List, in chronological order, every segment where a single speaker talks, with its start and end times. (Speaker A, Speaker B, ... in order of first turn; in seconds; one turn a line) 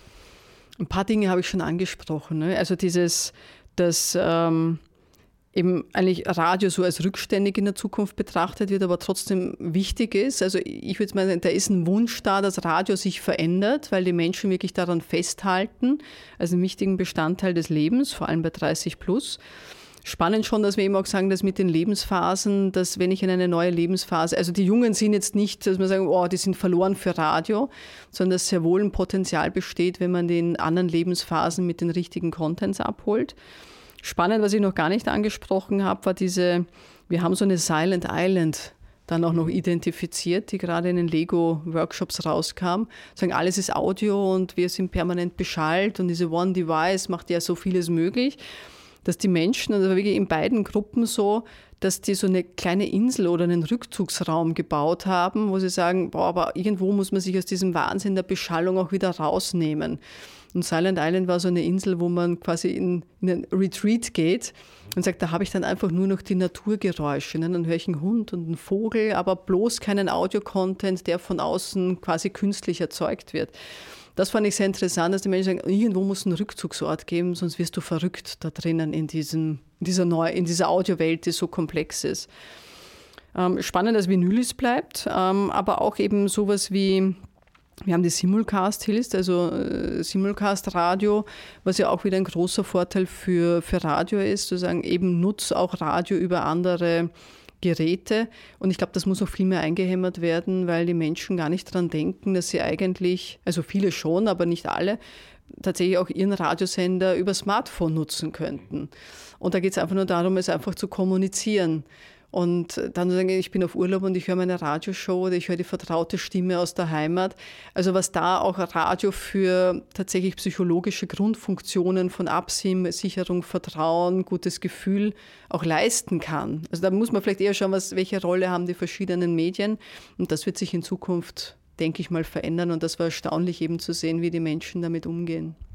Speaker A: 0.8-4.8
Speaker A: 5.5-19.4
Speaker A: 20.0-33.3
Speaker A: 34.0-48.4
Speaker A: 49.0-60.0
Speaker A: 60.5-73.5
Speaker A: 74.2-82.3
Speaker A: 83.3-87.2
Speaker A: 87.8-105.0
Speaker A: 105.5-135.6